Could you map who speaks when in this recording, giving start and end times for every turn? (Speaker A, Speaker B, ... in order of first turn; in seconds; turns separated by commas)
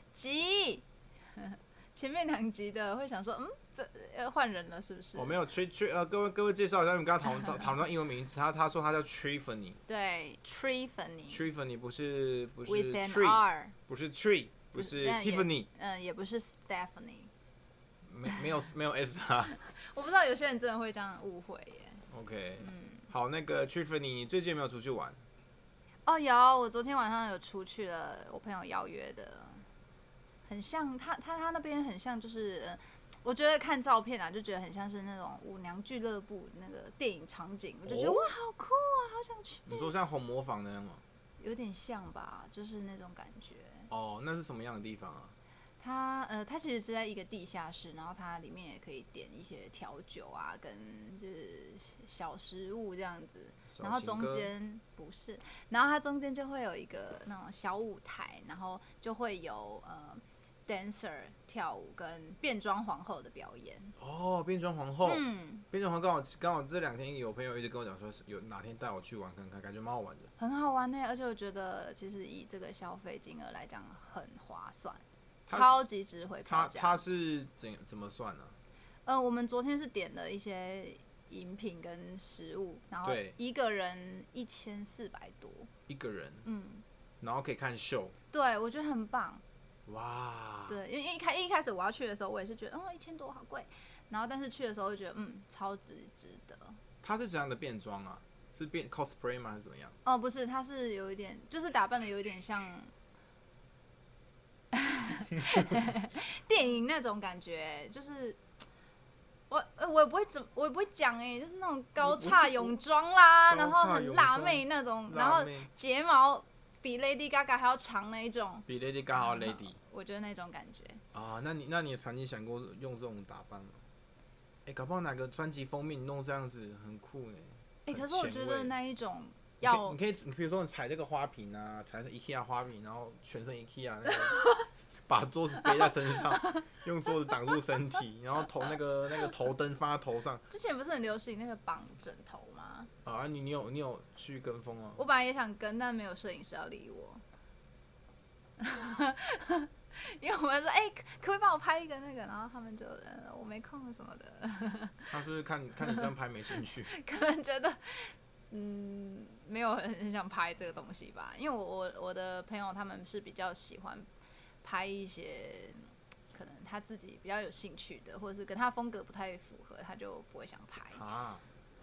Speaker A: 0.1-0.8, Speaker A: 1.4-5.4, Speaker B: 5.2-9.8, Speaker A: 9.9-11.5, Speaker B: 11.3-15.7, Speaker A: 12.7-13.8, Speaker A: 14.8-17.3, Speaker B: 18.1-19.5, Speaker A: 19.6-22.0, Speaker B: 22.1-25.2, Speaker A: 22.6-23.0, Speaker A: 26.1-29.7, Speaker A: 30.5-39.9, Speaker B: 37.9-38.3, Speaker B: 39.7-41.0, Speaker A: 41.4-43.9, Speaker B: 43.9-45.4, Speaker A: 45.8-64.0, Speaker B: 53.7-54.5, Speaker B: 64.0-70.3, Speaker A: 65.0-65.7, Speaker A: 70.4-77.0, Speaker B: 76.5-78.6, Speaker A: 79.1-85.7, Speaker B: 83.0-83.3, Speaker B: 85.9-86.5, Speaker A: 86.5-86.8, Speaker B: 87.2-88.1, Speaker A: 88.3-89.4, Speaker B: 89.9-90.8, Speaker A: 90.7-96.8, Speaker B: 97.0-100.0, Speaker A: 100.0-102.9, Speaker A: 104.7-108.4, Speaker A: 109.5-121.0, Speaker B: 112.0-112.8, Speaker B: 113.5-115.7, Speaker B: 118.7-119.8, Speaker B: 121.1-123.8, Speaker B: 124.7-128.7, Speaker A: 127.9-130.0, Speaker B: 129.6-134.4, Speaker B: 135.1-140.4, Speaker A: 140.5-142.9, Speaker B: 143.1-145.0, Speaker A: 145.0-147.2, Speaker A: 148.6-155.1, Speaker B: 155.1-156.9, Speaker A: 155.9-164.1, Speaker A: 164.6-171.0, Speaker B: 170.9-171.4